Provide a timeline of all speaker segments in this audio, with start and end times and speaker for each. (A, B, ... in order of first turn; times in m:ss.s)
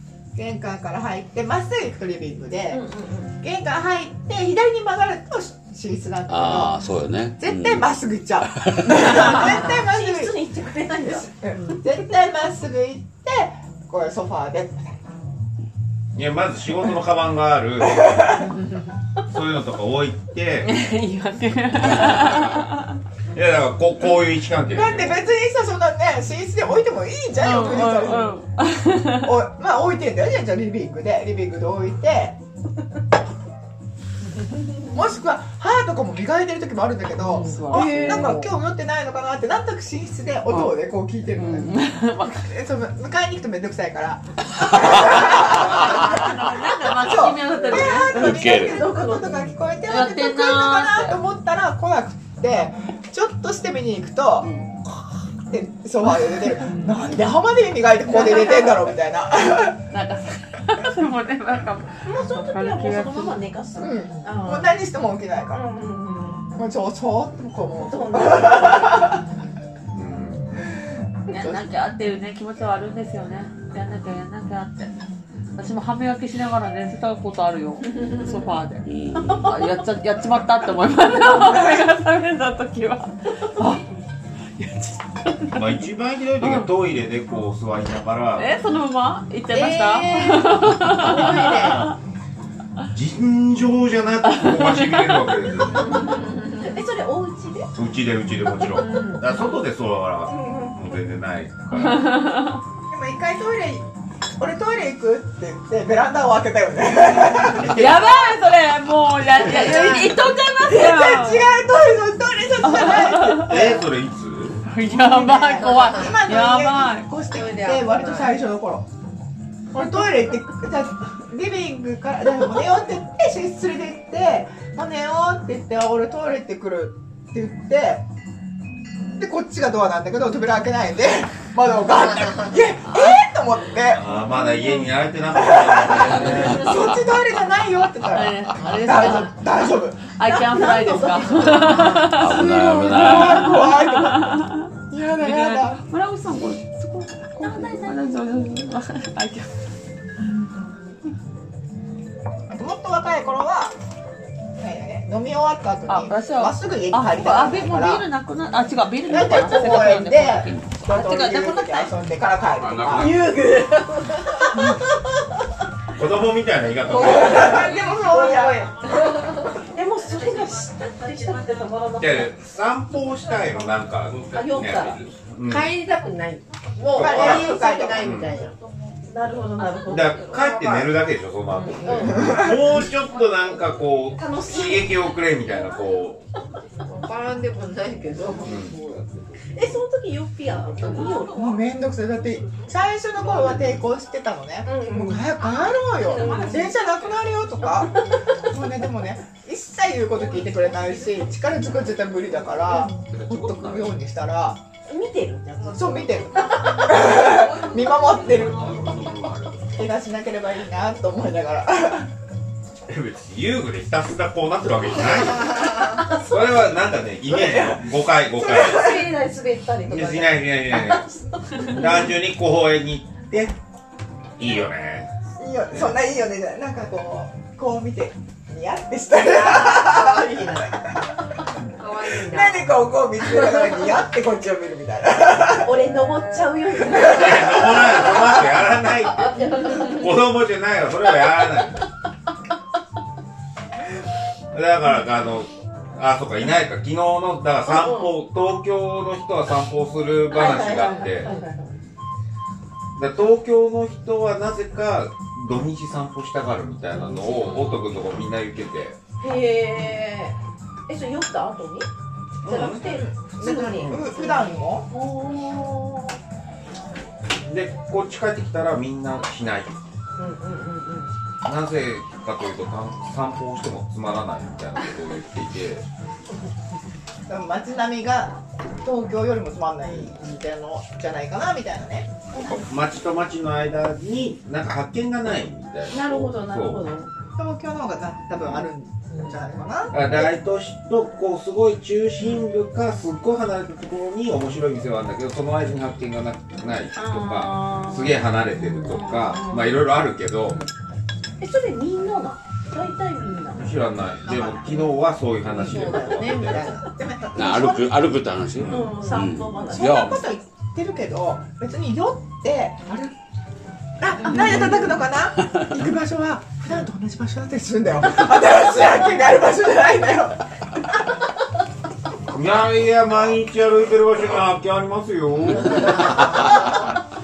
0:00.3-0:02.8 A
0:02.7-0:03.3 B
0:03.4-0:06.8 A
0:06.3-0:07.9 C
0:07.4-0:10.4 A
0:08.4-0:09.0 C
0:08.9-0:11.8 B
0:11.0-0:15.0 A
0:16.1-0:18.1 D
0:17.9-0:18.5 A
0:19.3-0:20.7 D
0:20.6-0:22.9 E
0:23.3-0:25.2 D
0:24.7-0:28.4 A
0:27.4-0:29.4 E
0:29.1-0:32.4 A
0:34.9-0:59.8 A
0:37.3-0:38.4 B
0:37.3-0:38.5 E
0:40.5-0:40.8 E
0:41.3-0:42.5 E
0:44.7-0:45.4 C
0:45.3-0:48.4 E
0:47.7-0:49.6 B
0:48.1-0:48.8 C
0:49.9-0:51.2 E
0:58.2-0:58.7 B
0:59.9-1:03.4 E
1:02.0-1:04.8 B
1:03.8-1:05.6 A
1:05.5-1:06.5 B
1:06.5-1:09.2 A
1:07.8-1:09.2 B
1:09.9-1:10.7 D
1:11.3-1:11.6 A
1:11.3-1:15.0 E
1:15.6-1:23.8 E
1:18.8-1:19.6 C
1:24.6-1:25.8 E
1:25.5-1:28.5 D
1:26.4-1:26.7 E
1:28.4-1:32.0 E
1:29.5-1:31.8 F
1:31.1-1:31.6 B
1:32.9-1:35.9 D
1:34.2-1:35.4 E
1:35.7-1:37.7 B
1:37.7-1:42.1 D
1:38.7-1:39.2 B
1:40.4-1:40.7 B
1:41.7-1:42.6 E
1:42.9-1:43.9 A
1:44.4-1:47.9 A
1:47.3-1:48.3 D
1:47.6-1:51.5 E
1:49.4-1:53.8 A
1:49.5-1:50.0 F
1:52.6-1:53.6 E
1:53.3-1:54.7 D
1:54.6-1:57.1 E
1:54.8-1:58.9 A
1:55.6-1:56.2 F
1:57.3-1:58.3 F
1:59.7-2:08.0 A
2:09.2-2:14.1 A
2:12.1-2:12.5 F
2:12.9-2:13.2 E
2:13.9-2:17.0 D
2:15.3-2:20.1 A
2:18.1-2:19.4 E
2:20.1-2:29.5 E
2:20.2-2:22.0 B
2:21.3-2:22.1 F
2:22.1-2:23.6 C
2:22.3-2:25.8 A
2:27.4-2:28.2 B
2:30.4-2:30.7 A
2:32.5-2:33.7 A
2:34.6-2:38.0 A
2:35.9-2:41.9 E
2:39.1-2:43.2 A
2:42.6-2:43.4 C
2:42.9-2:44.8 F
2:45.9-2:47.7 D
2:46.9-2:48.7 A
2:47.0-2:48.6 F
2:48.1-2:48.5 B
2:49.6-2:52.4 B
2:52.0-2:55.8 D
2:54.2-2:58.5 F
2:54.3-2:54.9 B
2:56.9-2:58.4 D
2:56.9-2:58.1 A
2:59.1-3:00.3 B
2:59.8-3:06.3 D
3:00.1-3:01.0 F
3:01.5-3:02.3 F
3:01.8-3:02.3 B
3:02.1-3:02.6 A
3:04.2-3:05.0 F
3:06.8-3:08.6 F
3:08.4-3:08.8 D
3:09.5-3:11.6 B
3:10.8-3:11.1 F
3:11.2-3:24.6 A
3:13.4-3:13.8 D
3:14.7-3:15.2 F
3:16.0-3:16.8 B
3:16.0-3:16.6 F
3:22.9-3:23.9 C
3:24.8-3:27.0 B
3:25.7-3:28.8 A
3:28.2-3:29.3 C
3:28.6-3:29.6 D
3:29.7-3:32.1 A
3:32.9-3:39.1 D
3:35.5-3:36.0 F
3:38.4-3:41.9 B
3:38.5-3:38.8 A
3:39.8-3:41.1 D
3:41.6-3:43.6 D
3:44.4-3:45.1 D
3:45.4-3:50.8 A
3:49.2-3:50.8 F
3:51.8-3:52.7 F
3:52.0-3:55.9 A
3:55.6-3:57.8 B
3:56.9-4:01.8 D
3:59.2-4:00.1 B
4:04.5-4:11.3 D
4:07.7-4:08.0 F
4:10.3-4:11.8 B
4:10.4-4:11.4 F
4:13.0-4:19.0 D
4:16.9-4:17.8 B
4:19.2-4:21.9 B
4:22.4-4:22.8 D
4:22.4-4:26.2 B
4:22.5-4:24.9 A
4:27.4-4:29.7 D
4:30.2-4:31.1 B
4:31.4-4:35.8 D
4:37.3-4:42.1 A
4:42.4-4:46.9 D
4:45.9-4:47.1 B
4:47.4-4:50.3 A
4:49.1-4:49.4 B
4:49.9-5:00.6 D
4:57.0-4:59.8 B
5:01.4-5:03.8 B
5:03.5-5:06.8 D
5:04.2-5:04.6 A
5:05.5-5:05.9 A
5:05.6-5:06.7 F
5:05.6-5:06.8 B
5:06.6-5:08.1 A
5:07.3-5:10.2 C
5:08.6-5:08.9 D
5:08.6-5:10.1 B
5:09.7-5:13.1 A
5:14.0-5:20.4 A
5:14.3-5:14.9 C
5:22.3-5:26.8 D